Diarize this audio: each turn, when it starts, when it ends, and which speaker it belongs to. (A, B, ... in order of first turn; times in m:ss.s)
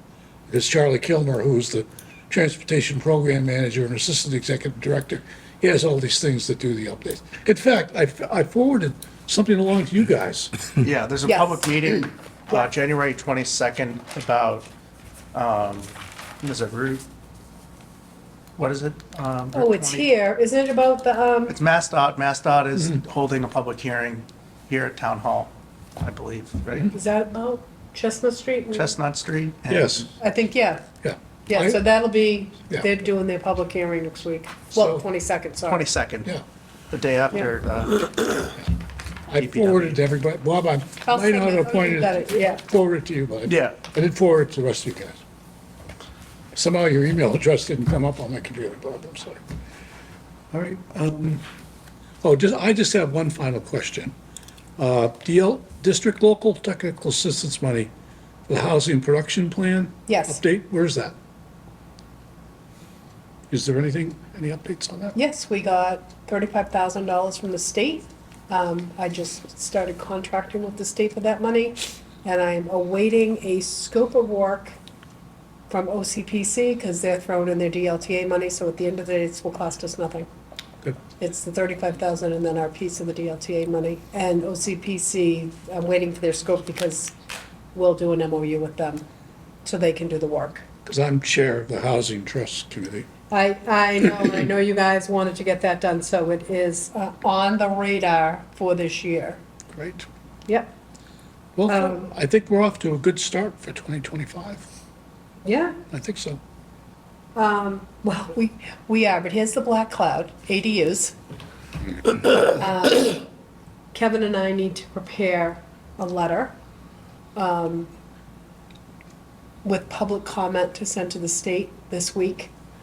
0:00.5-0:10.5 A
0:10.8-0:14.7 B
0:11.2-0:11.7 C
0:15.3-0:17.0 B
0:18.6-0:20.1 B
0:19.5-0:21.6 C
0:21.5-0:26.9 B
0:26.9-0:28.9 C
0:28.7-0:30.1 B
0:29.7-0:30.1 A
0:30.2-0:30.8 C
0:31.0-0:31.8 A
0:31.5-0:35.9 C
0:34.7-0:35.0 A
0:35.7-0:36.3 B
0:36.9-0:38.6 B
0:39.3-0:45.2 A
0:39.4-0:40.0 B
0:41.0-0:42.6 C
0:43.5-0:43.8 B
0:46.5-0:49.4 A
0:50.5-0:51.4 A
0:52.2-0:54.1 A
0:54.8-0:57.9 A
0:58.5-1:01.1 A
1:00.1-1:00.4 C
1:03.5-1:05.1 A
1:05.1-1:14.8 C
1:15.7-1:20.3 C
1:21.2-1:27.1 C
1:27.7-1:29.0 C
1:29.6-1:30.6 C
1:30.8-1:33.1 A
1:33.3-1:39.4 C
1:39.7-1:40.0 A
1:40.5-1:40.7 C
1:41.6-1:44.6 A
1:41.7-1:42.1 C
1:45.4-1:45.8 C
1:45.9-1:46.4 A
1:47.3-1:51.1 C
1:52.2-1:53.2 C
1:53.9-1:56.5 C
1:57.3-1:57.9 C
1:59.6-2:02.5 C